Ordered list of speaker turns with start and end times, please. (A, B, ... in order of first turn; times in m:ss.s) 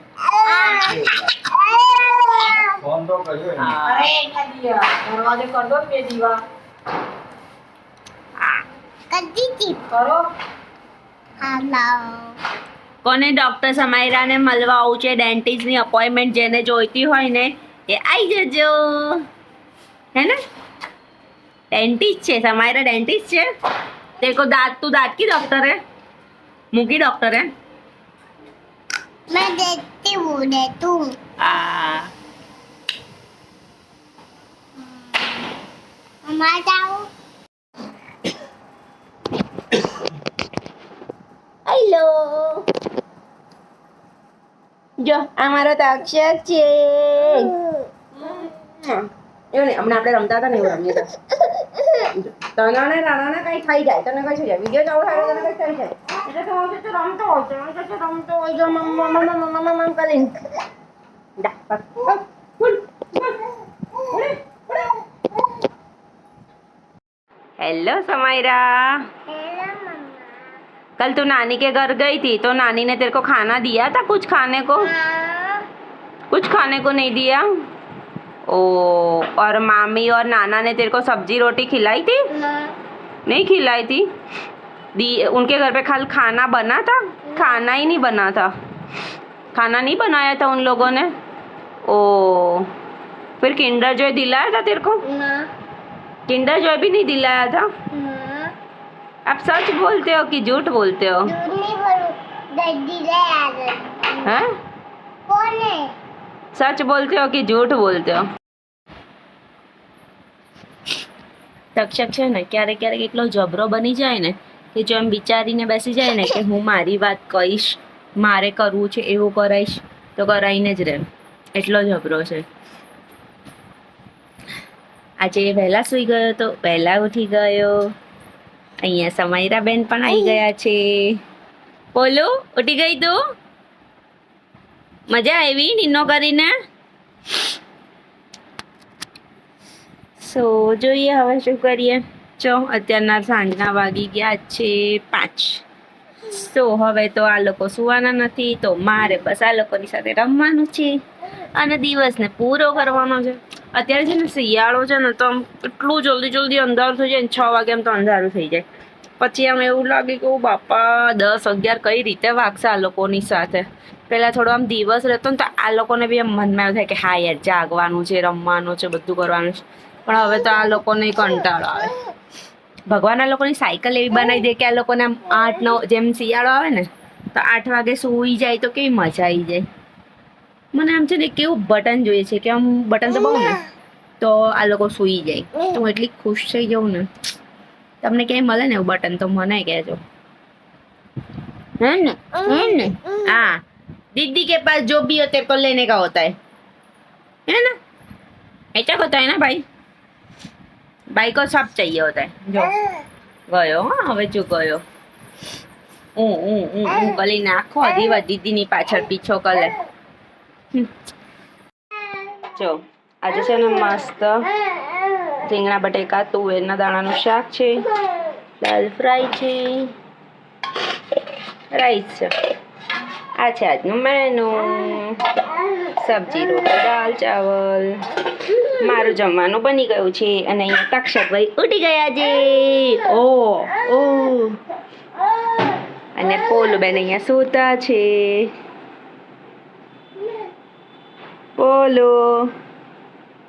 0:00.2-0:02.9 A
0:03.5-0:04.1 B
0:03.8-0:06.4 C
0:09.1-0:09.9 A
0:09.9-0:10.3 C
0:11.4-0:12.4 A
0:13.0-0:19.2 B
0:21.7-0:23.4 B
0:24.2-0:25.8 B
0:26.7-0:27.5 B
0:29.3-0:31.1 A
0:31.4-0:32.1 B
0:35.1-0:35.5 A
0:36.2-0:37.1 A
0:41.7-0:42.6 B
0:45.0-0:47.6 B
0:48.1-0:51.1 B
0:51.9-1:00.3 B
1:01.4-1:03.4 B
1:04.0-1:04.3 B
1:07.6-1:09.0 B
1:09.3-1:10.3 A
1:11.0-1:14.9 B
1:14.8-1:15.6 A
1:16.3-1:17.5 B
1:18.5-1:22.3 B
1:22.3-1:22.7 A
1:23.2-1:24.1 B
1:24.9-1:28.5 B
1:29.5-1:31.1 B
1:31.8-1:32.7 B
1:33.4-1:35.0 B
1:35.0-1:35.5 A
1:36.3-1:37.7 B
1:37.9-1:38.5 A
1:39.3-1:41.3 B
1:41.2-1:44.3 A
1:45.3-1:45.9 A
1:46.5-1:48.3 B
1:51.8-2:02.4 B
2:05.2-2:07.9 B
2:08.8-2:11.2 B
2:11.9-2:13.2 B
2:15.1-2:16.5 B
2:20.2-2:25.6 B
2:26.2-2:31.0 B
2:31.5-2:38.6 B
2:39.2-2:51.9 B
2:52.9-2:59.6 B
3:00.7-3:03.6 B
3:04.2-3:07.1 B
3:08.0-3:10.0 B
3:11.8-3:13.6 B
3:14.1-3:16.3 B
3:17.5-3:17.8 B
3:18.7-3:19.6 B
3:21.1-3:22.8 B
3:23.5-3:24.8 B
3:26.2-3:29.7 B
3:32.4-3:34.4 B
3:35.3-3:37.8 B
3:38.6-3:39.9 B
3:41.7-3:42.3 B
3:43.4-3:45.2 B
3:45.8-3:48.0 B
3:48.6-3:54.6 B
3:56.2-3:58.5 B
4:01.6-4:02.5 B